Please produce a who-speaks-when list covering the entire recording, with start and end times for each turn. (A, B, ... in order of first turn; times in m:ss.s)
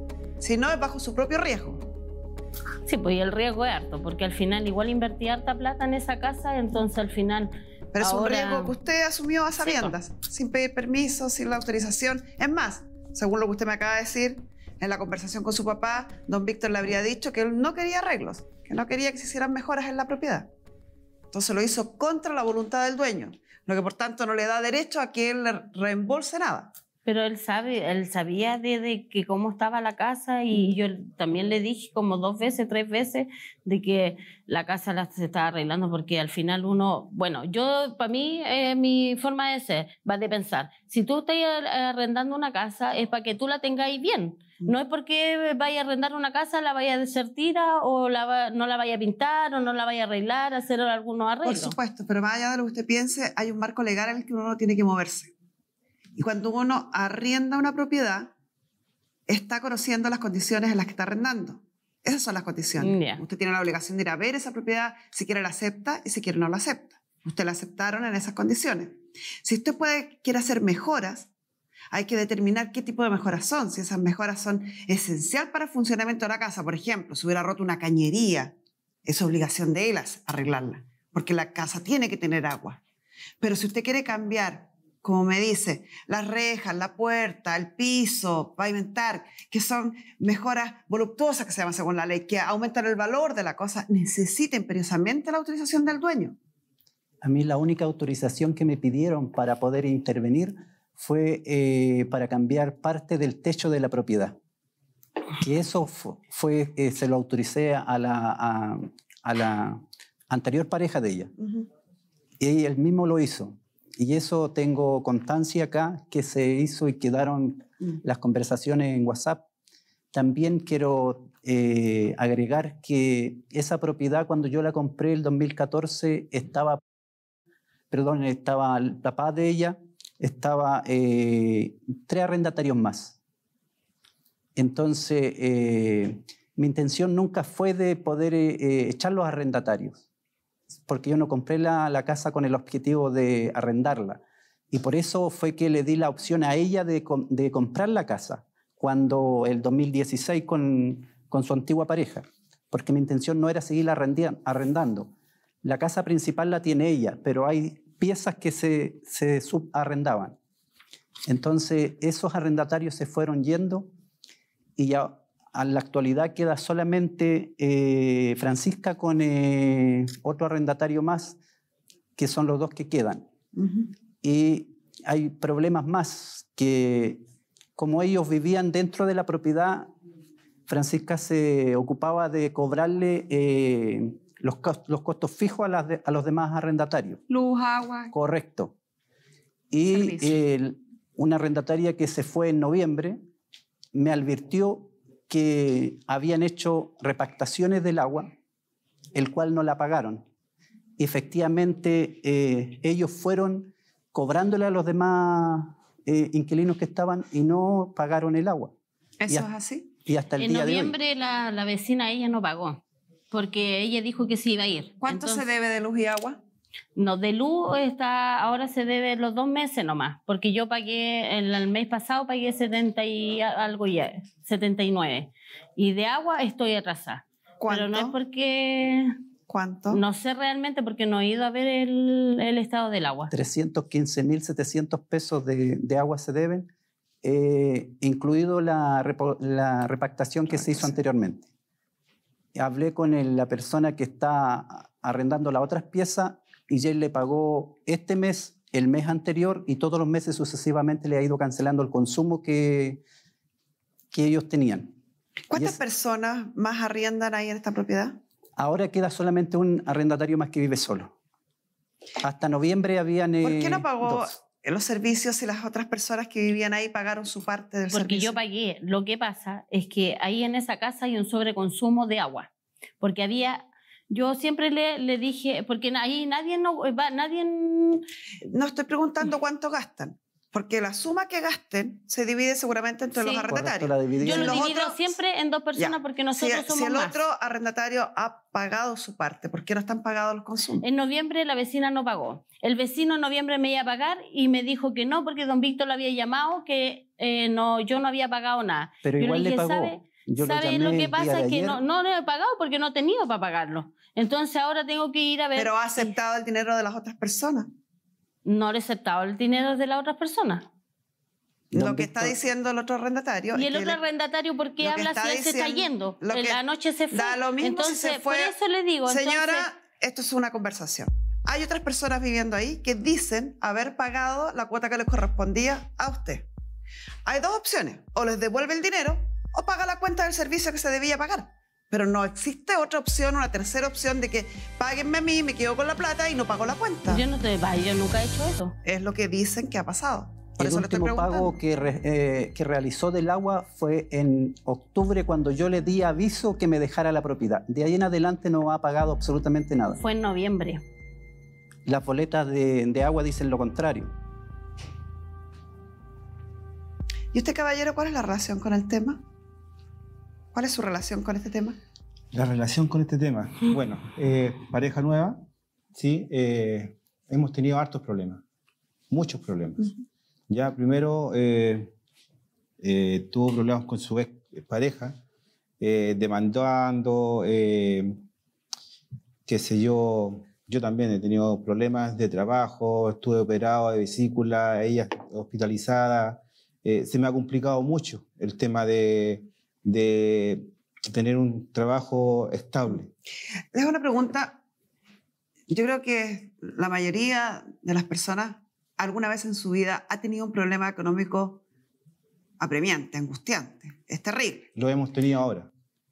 0:00.4-0:01.8 A
0:02.9-0:08.8 B
0:07.9-0:20.5 A
0:09.6-0:10.0 B
0:21.3-0:26.7 A
0:27.1-0:51.8 B
0:51.4-0:55.3 A
0:56.2-0:58.3 A
0:59.3-1:11.3 A
1:02.8-1:03.2 B
1:11.9-1:18.5 A
1:19.0-1:22.8 A
1:23.4-1:36.4 A
1:37.2-1:44.4 C
1:45.4-1:51.3 C
1:51.4-1:51.7 A
1:52.4-1:59.4 C
2:00.1-2:06.8 C
2:07.9-2:13.2 C
2:14.6-2:20.0 C
2:20.9-2:35.1 C
2:35.6-2:40.4 C
2:41.3-2:43.9 C
2:44.8-2:51.4 C
2:52.2-2:53.3 C
2:53.6-2:53.9 A
2:54.2-2:57.2 C
2:57.8-2:59.9 C
3:00.7-3:07.2 C
3:07.3-3:08.1 A
3:08.1-3:08.8 C
3:09.7-3:13.2 C
3:09.9-3:10.4 A
3:13.9-3:18.3 C
3:19.1-3:20.2 C
3:21.0-3:28.7 C
3:29.2-3:29.9 A
3:30.1-3:31.0 C
3:30.4-3:35.4 B
3:35.0-3:36.4 A
3:37.0-3:49.2 B
3:47.6-3:48.2 A
3:49.5-3:50.0 A
3:49.9-3:53.3 B
3:53.3-3:56.7 C
3:57.2-4:01.5 C
4:02.6-4:13.0 C
4:14.1-4:15.0 C
4:15.5-4:18.2 A
4:18.6-4:21.2 C
4:22.2-4:24.3 C
4:23.4-4:28.4 A
4:27.9-4:32.5 B
4:33.0-4:38.1 B
4:38.4-4:45.2 A
4:43.2-4:43.4 B
4:43.5-4:44.7 C
4:44.2-4:47.2 B
4:45.8-4:50.8 A
4:50.8-5:06.1 B
4:59.0-5:01.8 C
5:05.6-5:07.7 A
5:08.4-5:10.7 B
5:11.7-5:14.0 A
5:11.7-5:12.4 C
5:13.5-5:19.7 B
5:14.8-5:16.6 A
5:17.1-5:18.6 A
5:19.1-5:26.5 A
5:27.3-5:37.2 A
5:37.1-5:38.8 B
5:38.8-5:41.6 A
5:40.6-5:50.0 C
5:50.0-5:50.8 B
5:51.9-5:54.1 C
5:57.3-5:59.2 A
6:00.5-6:01.8 A
6:02.3-6:05.4 D
6:05.9-6:08.4 D
6:09.1-6:09.9 D
6:10.5-6:11.9 D
6:12.8-6:15.2 D
6:15.8-6:18.2 D
6:19.5-6:33.1 D
6:33.7-6:34.6 A
6:35.7-6:41.6 A
6:42.6-6:44.7 A
6:44.8-6:45.7 D